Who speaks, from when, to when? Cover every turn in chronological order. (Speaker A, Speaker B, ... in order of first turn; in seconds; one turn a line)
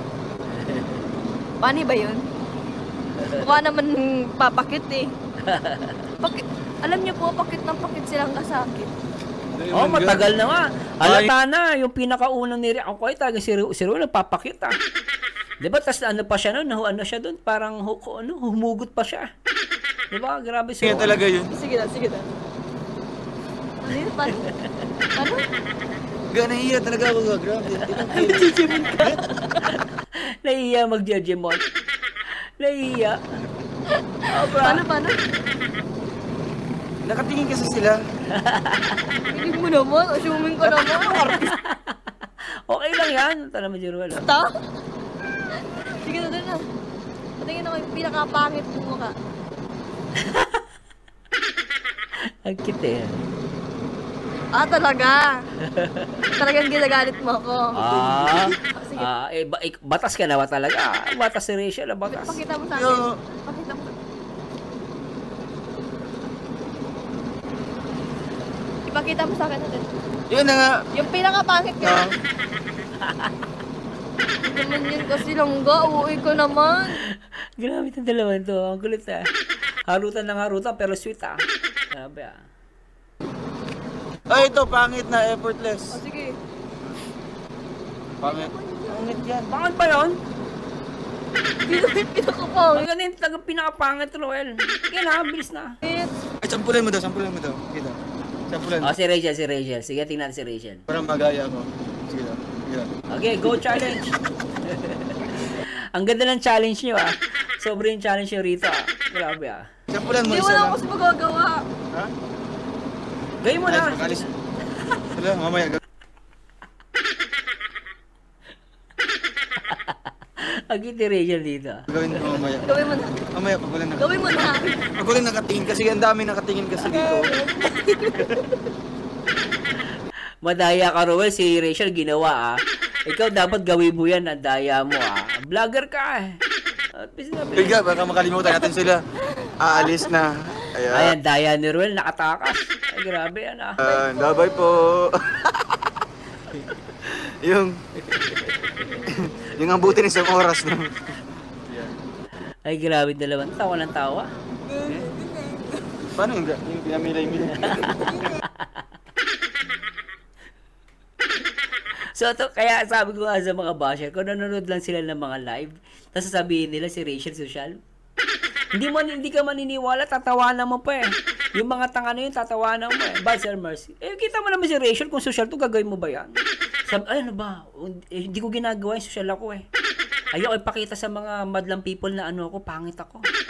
Speaker A: 0.6-1.0
Speaker B: 1.6-2.2
Speaker A: 3.2-3.4
Speaker B: 3.4-5.1
Speaker A: 5.4-6.0
Speaker B: 6.2-8.9
Speaker C: 9.5-10.3
Speaker A: 9.7-14.7
Speaker C: 11.0-11.3
Speaker A: 15.6-19.3
Speaker A: 20.1-21.2
Speaker C: 20.8-21.5
Speaker B: 21.5-22.3
Speaker B: 23.8-24.4
Speaker B: 25.1-25.4
Speaker C: 26.3-29.2
Speaker B: 28.0-29.8
Speaker A: 30.4-31.6
Speaker A: 32.6-33.2
Speaker B: 33.9-35.2
Speaker A: 34.3-34.8
Speaker C: 37.0-38.0
Speaker A: 38.3-39.0
Speaker B: 39.3-41.5
Speaker A: 41.0-42.1
Speaker A: 42.7-44.2
Speaker B: 44.1-44.5
Speaker B: 46.0-46.6
Speaker B: 47.4-49.1
Speaker A: 50.2-50.6
Speaker A: 52.4-53.2
Speaker B: 54.5-55.3
Speaker A: 55.6-56.3
Speaker B: 56.4-59.1
Speaker A: 57.7-62.4
Speaker B: 62.1-63.9
Speaker C: 62.7-63.1
Speaker B: 68.9-69.8
Speaker C: 70.3-70.8
Speaker B: 70.9-72.1
Speaker C: 71.8-72.1
Speaker A: 73.0-73.3
Speaker B: 74.4-77.0
Speaker A: 77.0-79.3
Speaker A: 79.9-82.4
Speaker C: 84.3-86.0
Speaker B: 85.9-86.4
Speaker B: 88.2-89.2
Speaker C: 88.2-89.5
Speaker A: 89.5-90.2
Speaker B: 91.7-92.8
Speaker A: 92.7-95.8
Speaker B: 95.8-96.1
Speaker C: 96.4-98.0
Speaker C: 98.5-98.9
Speaker A: 98.8-100.8
Speaker C: 100.9-102.9
Speaker A: 103.1-109.7
Speaker C: 109.9-110.8
Speaker B: 110.1-111.7
Speaker A: 113.4-114.3
Speaker C: 113.6-114.3
Speaker C: 115.1-115.8
Speaker A: 119.7-121.8
Speaker C: 121.9-122.7
Speaker B: 122.6-123.2
Speaker C: 123.3-124.2
Speaker B: 124.0-124.9
Speaker C: 125.0-127.3
Speaker B: 126.8-128.6
Speaker A: 130.4-136.4
Speaker A: 136.9-137.8
Speaker C: 137.6-139.0
Speaker B: 138.4-140.1
Speaker C: 139.6-141.1
Speaker A: 140.9-143.8
Speaker C: 143.8-146.0
Speaker B: 143.8-144.9
Speaker C: 147.0-147.8
Speaker C: 149.1-151.9
Speaker A: 152.7-154.3
Speaker B: 154.7-156.0
Speaker C: 156.1-158.1
Speaker A: 157.6-158.7
Speaker B: 158.1-158.4
Speaker A: 162.1-167.8
Speaker A: 168.7-176.4
Speaker A: 176.9-179.6
Speaker A: 180.3-183.2